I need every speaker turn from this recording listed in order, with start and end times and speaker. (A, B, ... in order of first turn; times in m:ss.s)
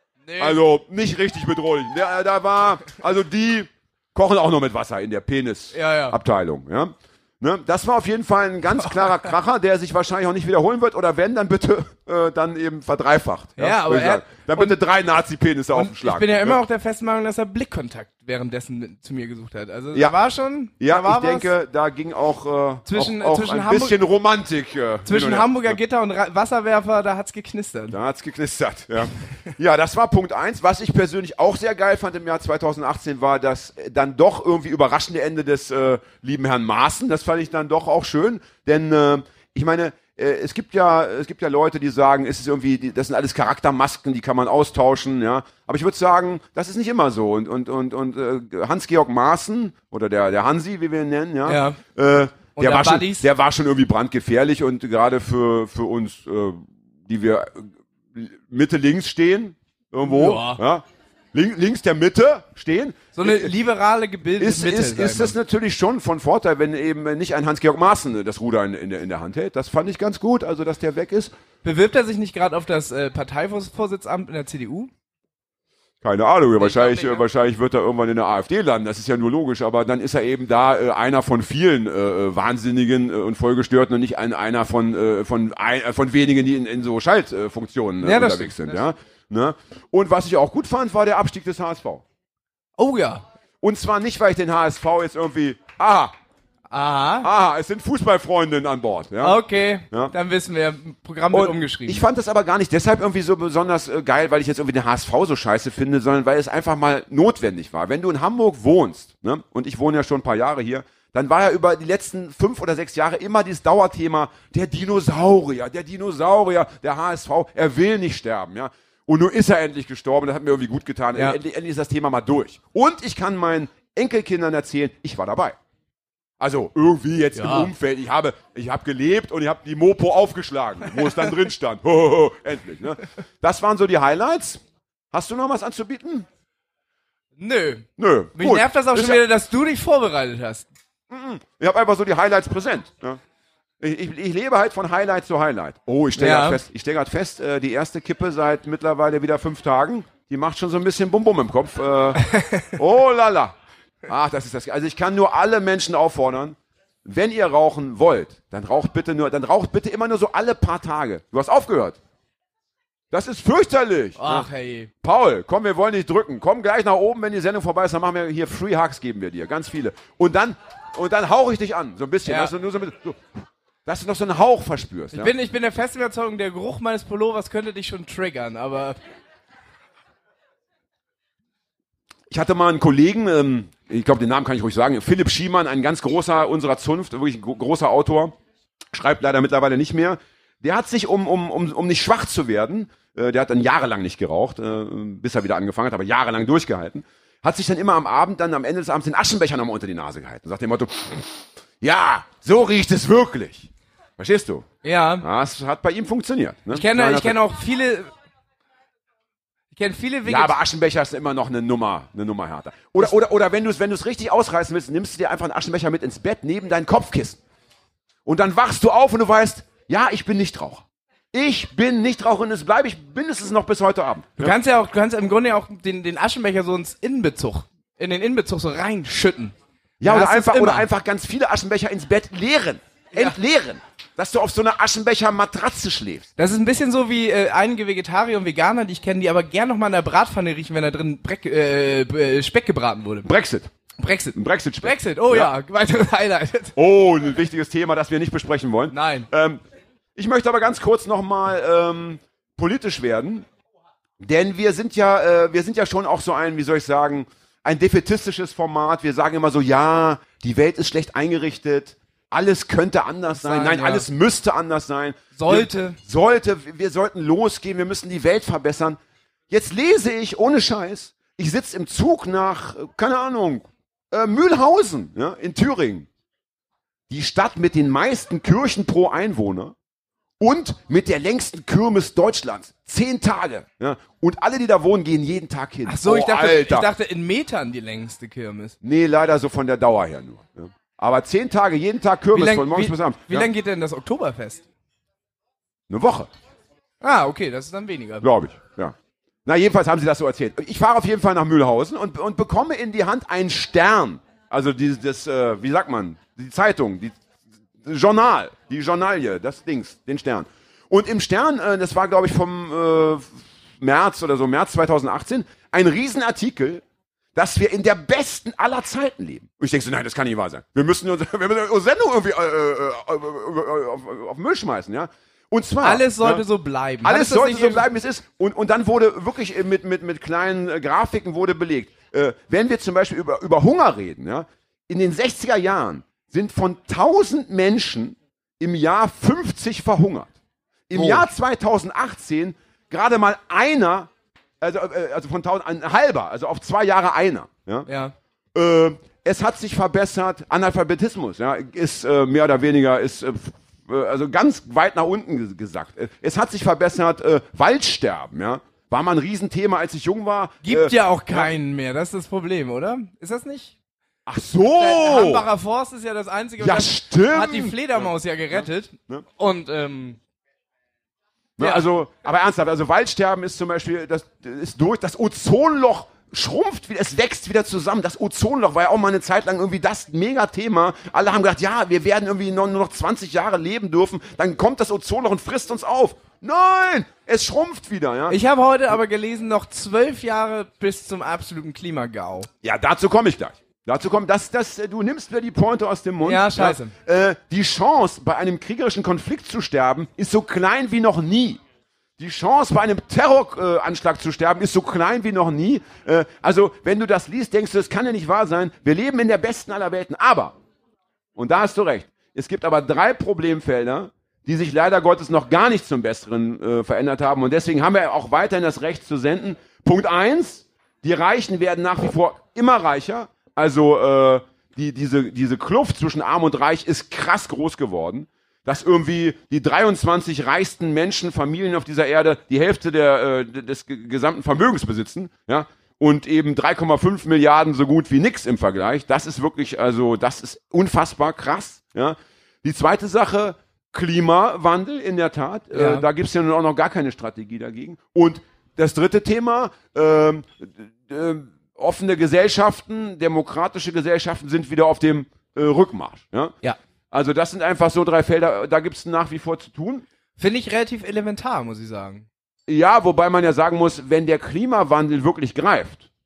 0:00.2-0:00.6 A
0:00.4-0:16.6 B
0:05.7-0:06.2 A
0:13.6-0:14.7 A
0:15.7-0:21.5 A
0:20.8-0:25.8 B
0:22.8-0:24.0 A
0:25.0-0:28.0 A
0:27.9-1:03.5 B
0:51.4-0:51.8 A
0:52.5-0:53.3 A
1:00.0-1:00.6 A
1:03.2-1:05.4 A
1:04.4-1:11.3 B
1:11.6-1:14.9 A
1:16.0-1:32.0 B
1:16.6-1:17.2 A
1:28.0-1:28.8 A
1:32.8-1:33.2 A
1:33.6-1:36.1 B
1:36.7-1:37.3 A
1:37.2-1:40.1 B
1:39.2-1:42.0 A
1:41.3-2:05.6 B
2:06.4-2:16.3 B
2:07.3-2:07.7 A
2:17.4-2:20.7 A
2:18.0-2:19.2 B
2:21.1-2:23.2 B
2:23.8-2:33.5 B
2:26.2-2:26.6 A
2:32.3-2:32.6 A
2:34.1-2:42.0 B
2:43.1-2:44.5 B
2:44.2-2:44.9 A
2:45.0-2:55.3 B
2:52.2-2:52.5 A
2:55.1-2:59.0 A
3:02.3-3:08.4 B
3:08.9-3:24.6 B
3:24.8-3:25.2 A
3:25.2-3:27.4 B
3:26.7-3:28.1 A
3:29.7-3:30.6 A
3:30.2-3:37.4 B
3:38.2-3:44.5 B
3:44.4-3:50.8 A
3:50.0-3:56.3 B
3:56.4-4:03.3 A
4:03.2-4:03.7 B
4:04.0-4:06.7 A
4:04.3-4:05.5 B
4:06.8-4:09.6 B
4:08.9-4:09.3 A
4:10.2-4:13.4 B
4:14.2-4:29.0 B
4:23.4-4:24.0 A
4:25.3-4:26.0 A
4:29.5-4:36.1 B
4:37.1-4:39.7 B
4:40.4-4:46.9 B
4:45.8-4:48.7 A
4:48.8-4:53.5 B
4:52.3-4:54.6 A
4:55.9-4:56.3 B
4:57.0-4:58.3 A
4:58.2-4:58.9 B
4:59.4-5:07.2 B
5:07.8-5:16.8 B
5:17.3-5:26.4 B
5:25.8-5:27.8 A
5:27.0-5:40.3 B
5:40.9-5:44.1 B
5:44.6-5:47.9 B
5:47.9-5:48.1 A
5:48.5-6:01.5 B
6:00.6-6:03.7 A
6:04.2-6:05.5 B
6:04.8-6:10.2 A
6:06.6-6:09.2 B
6:11.6-6:28.4 B
6:11.6-6:11.8 A
6:28.3-6:32.5 A
6:32.6-6:41.6 B
6:36.2-6:36.9 A
6:42.2-6:50.5 B
6:51.4-7:36.6 B
7:25.7-7:26.1 A
7:37.1-7:40.0 B
7:40.4-7:42.2 A
7:42.7-7:46.1 B